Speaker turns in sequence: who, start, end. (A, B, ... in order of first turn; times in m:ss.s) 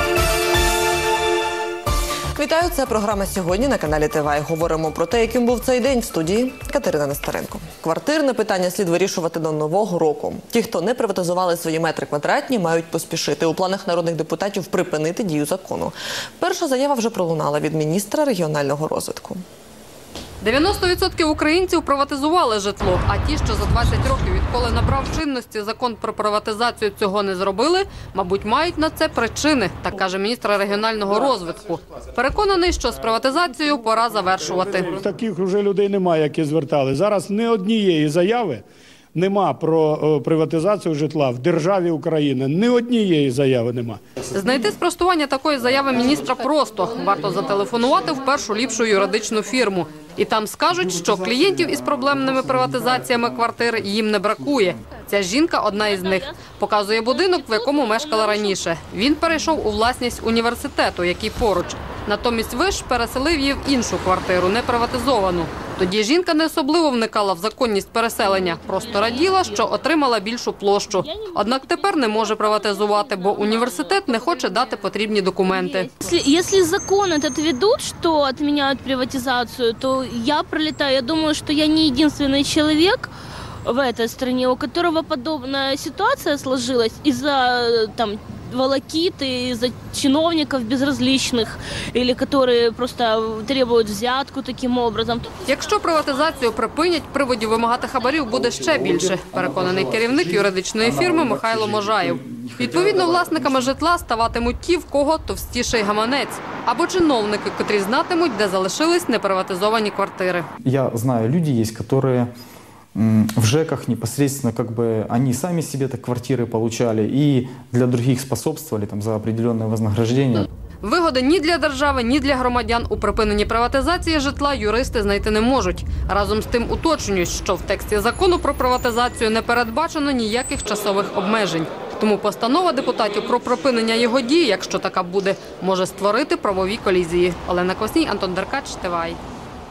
0:02.3-0:19.4 A
0:20.4-0:35.1 B
0:34.6-0:38.6 C
0:39.1-0:44.0 C
0:44.3-1:15.9 B
0:55.7-0:58.6 D
1:08.2-1:09.8 D
1:10.9-1:14.8 D
1:15.5-1:23.1 D
1:23.6-1:35.3 D
1:35.4-1:50.5 B
1:38.3-1:43.7 E
1:50.6-1:52.3 E
1:52.9-2:00.5 E
2:00.8-2:19.2 B